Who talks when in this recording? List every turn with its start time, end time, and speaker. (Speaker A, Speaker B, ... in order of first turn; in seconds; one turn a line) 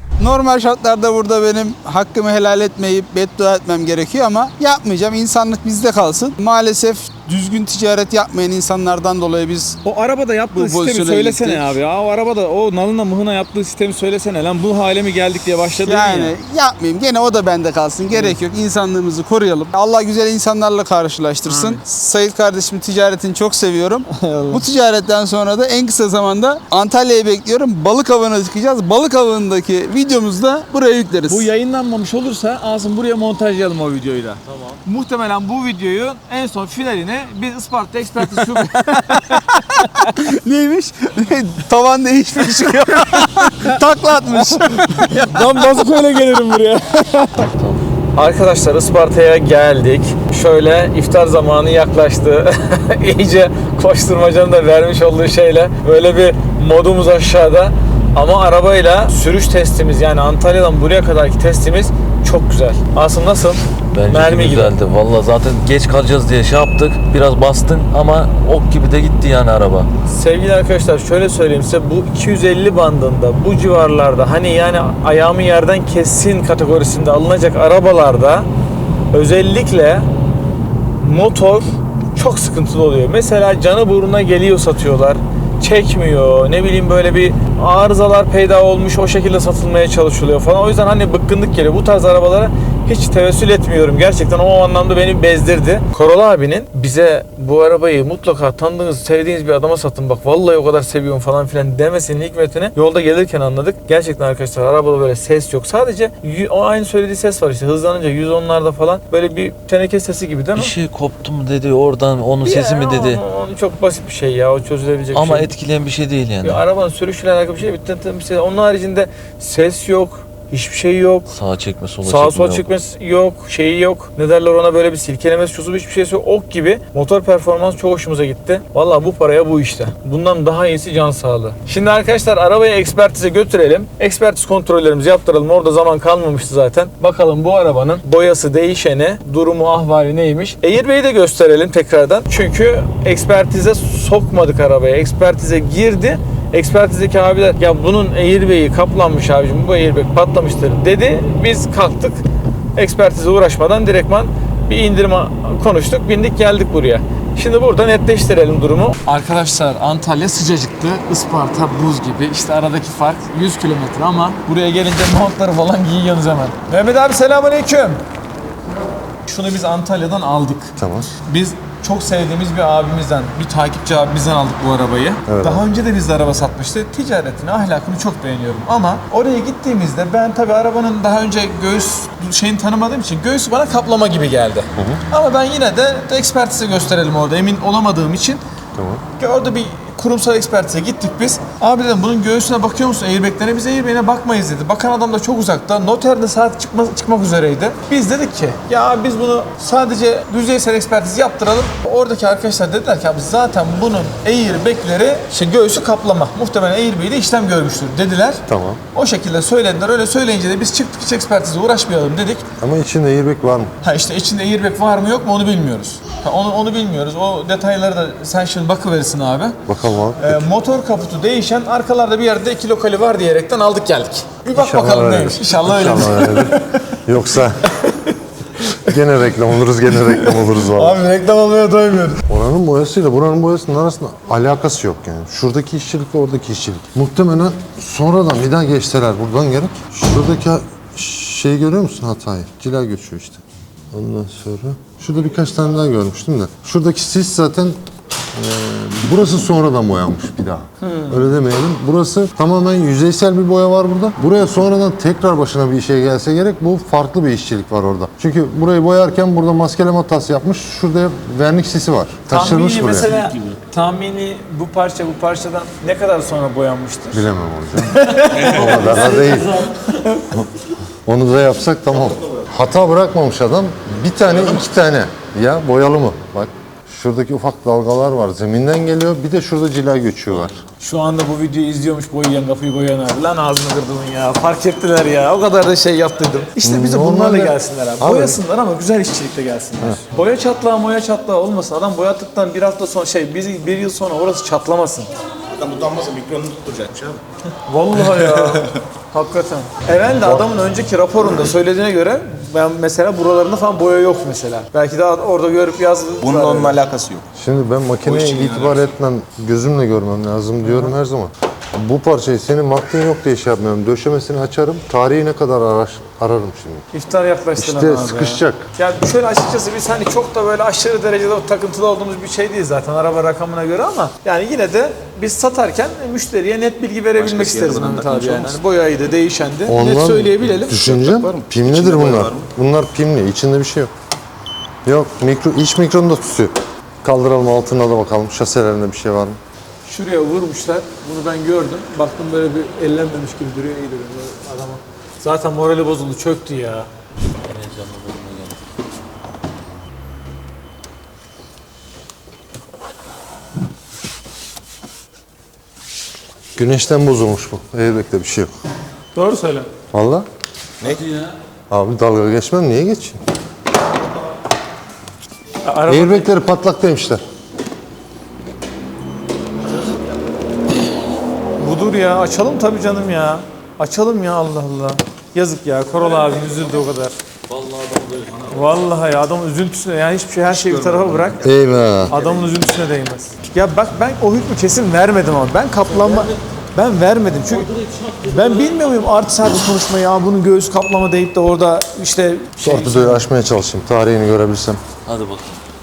Speaker A: 0.2-9.8
Speaker B: 9.8-16.4
Speaker A: 10.5-11.7
Speaker A: 15.8-31.5
Speaker B: 18.1-18.4
Speaker B: 21.4-21.8
Speaker B: 24.1-24.6
Speaker B: 31.3-40.1
Speaker C: 34.5-34.8
Speaker A: 40.0-45.1
Speaker B: 42.6-43.7
Speaker B: 44.4-47.5
Speaker C: 47.4-47.8
Speaker B: 48.1-64.8
Speaker C: 63.9-69.9
Speaker B: 70.0-78.5
Speaker B: 79.1-80.1
Speaker B: 81.0-110.7
Speaker C: 110.5-113.2
Speaker B: 112.4-115.5
Speaker C: 115.1-116.6
Speaker B: 116.4-121.3
Speaker C: 121.3-122.7
Speaker B: 122.0-152.2
Speaker B: 152.8-168.0
Speaker B: 169.2-188.4
Speaker D: 170.8-171.1
Speaker D: 175.3-175.6
Speaker D: 184.8-185.0
Speaker D: 188.8-189.1
Speaker B: 189.2-212.5
Speaker D: 208.5-208.8
Speaker D: 212.6-213.7
Speaker B: 213.8-219.6
Speaker D: 219.7-220.4
Speaker B: 220.2-227.0
Speaker D: 224.5-227.6
Speaker B: 227.7-229.0
Speaker D: 228.9-231.0
Speaker B: 229.9-232.2
Speaker D: 232.3-247.8
Speaker D: 248.3-263.1
Speaker B: 250.8-251.3
Speaker B: 262.3-270.4
Speaker D: 267.1-269.6
Speaker E: 268.4-268.8
Speaker D: 271.0-280.6
Speaker B: 280.8-295.1
Speaker D: 286.6-288.4
Speaker E: 295.5-297.2
Speaker B: 297.7-306.8
Speaker E: 298.1-298.7
Speaker D: 300.1-300.5
Speaker E: 306.2-307.3
Speaker D: 307.4-316.9
Speaker E: 308.0-308.8
Speaker B: 310.6-310.9
Speaker B: 316.9-330.8
Speaker D: 317.6-318.7
Speaker E: 327.1-328.6
Speaker D: 329.7-333.9
Speaker E: 330.7-332.5
Speaker D: 334.9-339.4
Speaker B: 339.9-346.9
Speaker C: 347.4-348.6
Speaker D: 356.6-358.5
Speaker B: 359.1-359.7
Speaker D: 359.9-360.3
Speaker E: 360.8-361.1
Speaker D: 361.7-363.2
Speaker B: 365.6-366.3
Speaker D: 365.9-367.2
Speaker B: 371.6-377.1
Speaker C: 376.2-376.6
Speaker C: 377.5-378.9
Speaker B: 378.5-381.5
Speaker E: 380.5-382.6
Speaker D: 381.4-382.1
Speaker B: 382.1-387.7
Speaker C: 385.9-386.4
Speaker C: 387.5-388.9
Speaker B: 388.2-393.2
Speaker D: 392.6-394.8
Speaker C: 395.1-395.6